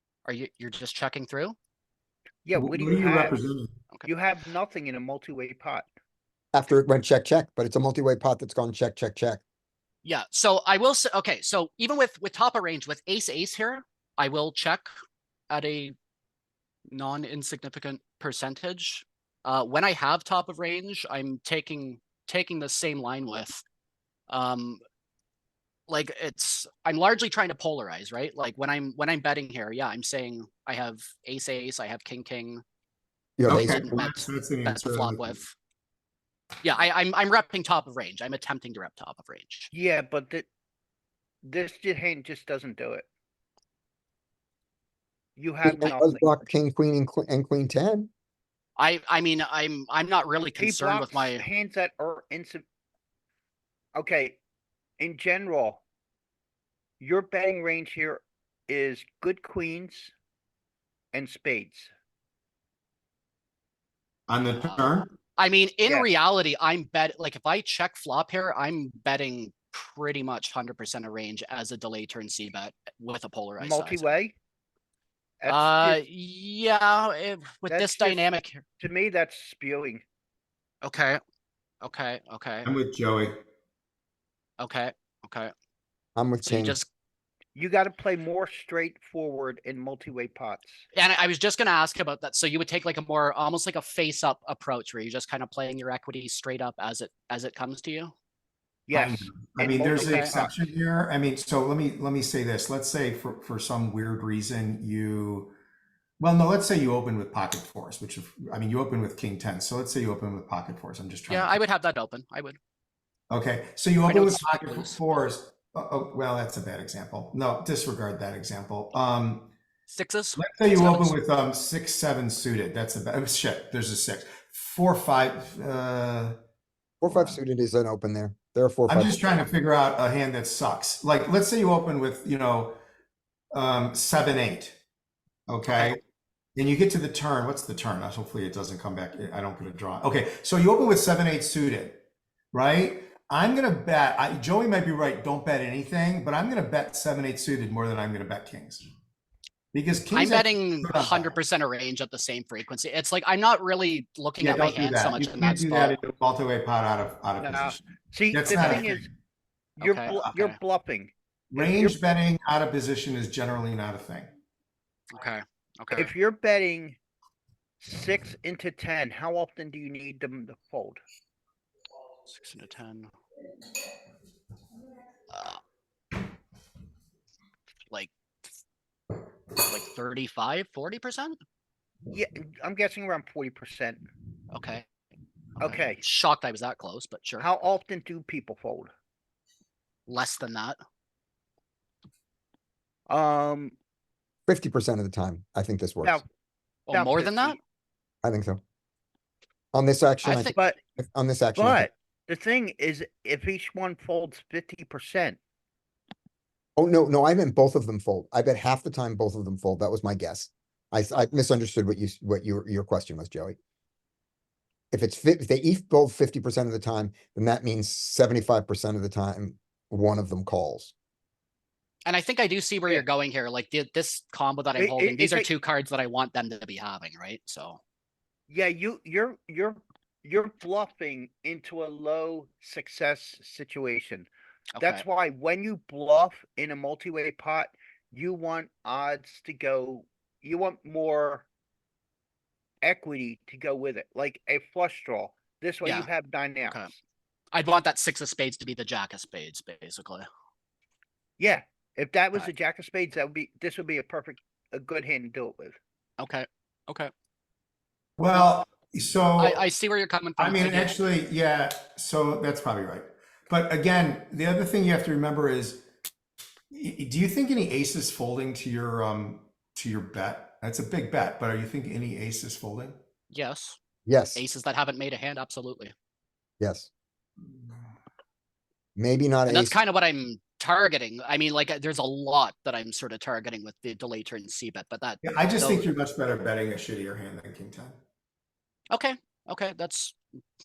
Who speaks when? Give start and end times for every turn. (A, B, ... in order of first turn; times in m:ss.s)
0:00.2-0:01.6 A
0:02.4-0:03.4 B
0:02.6-0:03.7 C
0:04.0-0:05.9 B
0:06.5-0:09.4 D
0:10.0-0:14.9 A
0:15.5-0:16.0 A
0:16.9-0:23.6 A
0:24.3-0:24.8 A
0:25.9-0:32.6 A
0:33.4-0:34.1 D
0:33.5-0:35.4 C
0:33.5-0:35.5 A
0:36.6-0:39.7 A
0:39.7-0:40.5 B
0:41.4-0:43.0 B
0:45.4-0:46.4 B
0:45.6-0:48.1 D
0:48.8-0:51.5 A
0:50.6-0:52.6 B
0:54.0-0:54.4 B
0:55.0-0:55.8 B
0:57.0-1:00.1 B
1:01.1-1:01.9 B
1:04.3-1:05.1 C
1:04.5-1:14.1 A
1:13.6-1:14.4 B
1:15.4-1:16.0 B
1:15.5-1:18.6 A
1:17.7-1:18.2 B
1:18.8-1:20.0 B
1:20.8-1:21.2 A
1:21.8-1:22.7 A
1:22.6-1:23.4 C
1:24.6-1:25.5 A
1:26.2-1:26.8 D
1:26.4-1:26.9 A
1:27.6-1:30.9 B
1:30.9-1:38.1 A
1:38.9-1:40.5 B
1:38.9-1:45.6 C
1:40.0-1:40.3 A
1:46.2-1:51.6 C
1:51.3-1:52.6 A
1:53.3-1:59.5 C
1:54.0-1:55.2 A
1:59.9-2:01.2 A
2:00.4-2:06.4 C
2:07.0-2:09.5 D
2:07.1-2:07.4 C
2:08.9-2:12.8 C
2:13.5-2:14.8 C
2:15.5-2:16.0 C
2:15.7-2:16.0 A
2:16.6-2:28.8 C
2:29.7-2:31.4 C
2:30.1-2:36.0 A
2:34.4-2:37.8 C
2:37.4-2:39.1 B
2:38.3-2:39.1 C
2:38.5-2:38.8 A
2:39.8-2:42.0 B
2:39.8-2:40.6 A
2:41.5-2:44.3 C
2:45.1-2:46.1 A
2:45.9-2:47.0 B
2:47.8-2:51.0 B
2:52.3-2:53.1 A
2:55.3-2:55.6 A
2:59.6-3:01.4 A
3:02.1-3:04.0 B
3:04.5-3:04.8 A
3:05.6-3:06.0 B
3:05.6-3:07.5 A
3:07.4-3:08.9 B
3:10.1-3:10.8 A
3:13.1-3:13.7 B
3:14.5-3:16.2 D
3:16.9-3:17.6 A
3:16.9-3:17.6 B
3:18.2-3:18.6 D
3:19.7-3:21.9 D
3:20.2-3:20.6 A
3:21.6-3:25.4 B
3:26.8-3:33.6 D
3:34.9-3:40.9 D
3:42.1-3:47.8 A
3:44.8-3:45.5 B
3:48.5-4:01.5 B
3:54.8-3:55.0 A
4:02.8-4:06.8 B
4:06.6-4:06.9 A
4:07.5-4:10.2 A
4:11.4-4:15.8 B
4:16.2-4:17.1 A
4:18.2-4:19.6 C
4:19.4-4:21.0 A
4:20.4-4:25.8 C
4:26.7-4:33.0 C
4:33.3-4:33.8 A
4:34.1-4:34.4 D
4:34.4-4:35.9 A
4:36.6-4:36.9 D
4:39.0-4:39.8 D
4:39.5-4:45.9 A
4:45.2-4:48.0 C
4:48.9-4:50.2 A